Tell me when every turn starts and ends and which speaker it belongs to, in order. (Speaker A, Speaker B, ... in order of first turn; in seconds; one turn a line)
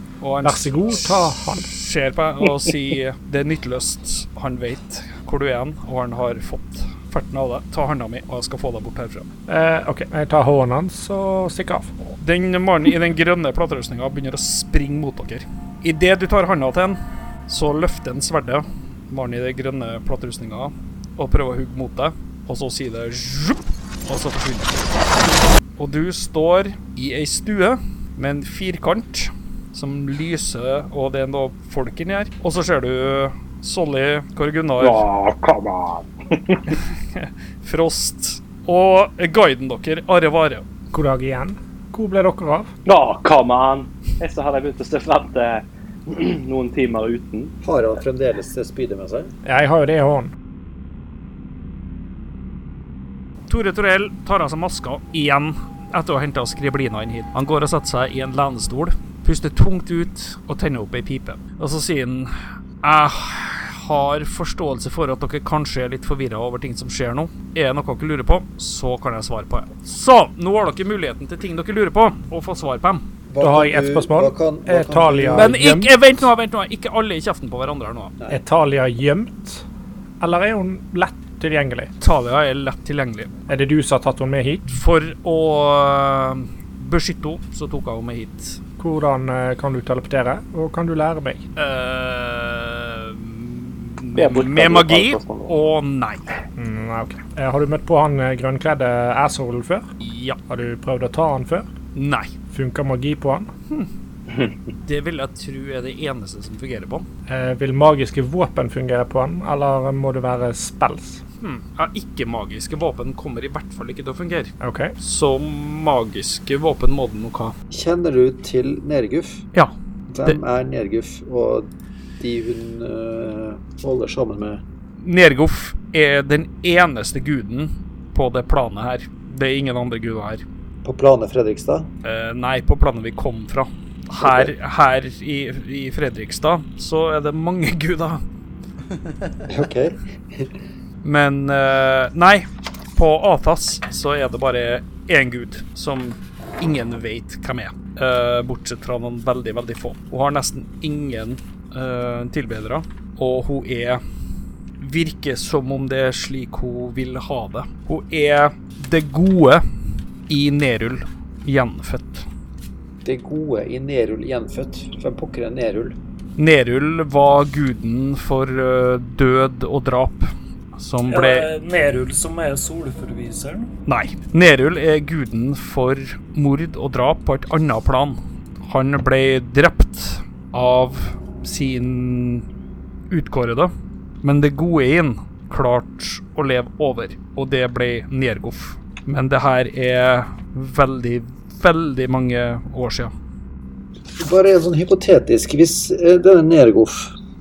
Speaker A: 0.2-9.2
Speaker B: 0.4-1.6
Speaker B: 9.5-11.9
Speaker A: 12.2-24.9
Speaker A: 25.8-35.0
Speaker C: 34.8-36.6
Speaker A: 36.7-40.6
Speaker B: 40.9-42.7
Speaker C: 42.9-47.5
Speaker D: 47.6-49.3
Speaker B: 49.4-50.3
Speaker A: 53.5-62.3
Speaker A: 62.8-73.0
Speaker D: 73.3-75.5
Speaker B: 73.4-75.9
Speaker A: 75.3-78.1
Speaker B: 78.3-79.6
Speaker B: 80.2-81.9
Speaker A: 82.0-83.3
Speaker B: 83.5-84.7
Speaker A: 84.7-88.6
Speaker B: 88.8-91.4
Speaker A: 91.5-96.2
Speaker C: 94.2-95.5
Speaker B: 96.6-99.9
Speaker A: 100.0-100.4
Speaker B: 100.5-101.7
Speaker A: 101.9-102.3
Speaker B: 102.5-103.5
Speaker C: 104.3-104.5
Speaker A: 104.8-107.0
Speaker B: 107.3-111.2
Speaker A: 111.4-117.5
Speaker B: 114.6-114.9
Speaker D: 117.7-119.4
Speaker A: 119.5-120.4
Speaker D: 120.1-121.7
Speaker D: 122.2-124.6
Speaker A: 125.0-130.4
Speaker D: 130.8-131.9
Speaker A: 132.0-138.2
Speaker D: 134.2-134.5
Speaker D: 139.5-140.5
Speaker A: 141.0-154.0
Speaker A: 154.8-159.6
Speaker A: 160.3-162.2
Speaker D: 163.0-166.0
Speaker A: 166.4-171.5
Speaker E: 171.1-173.7
Speaker A: 173.9-182.4
Speaker A: 183.1-193.1
Speaker D: 194.2-197.1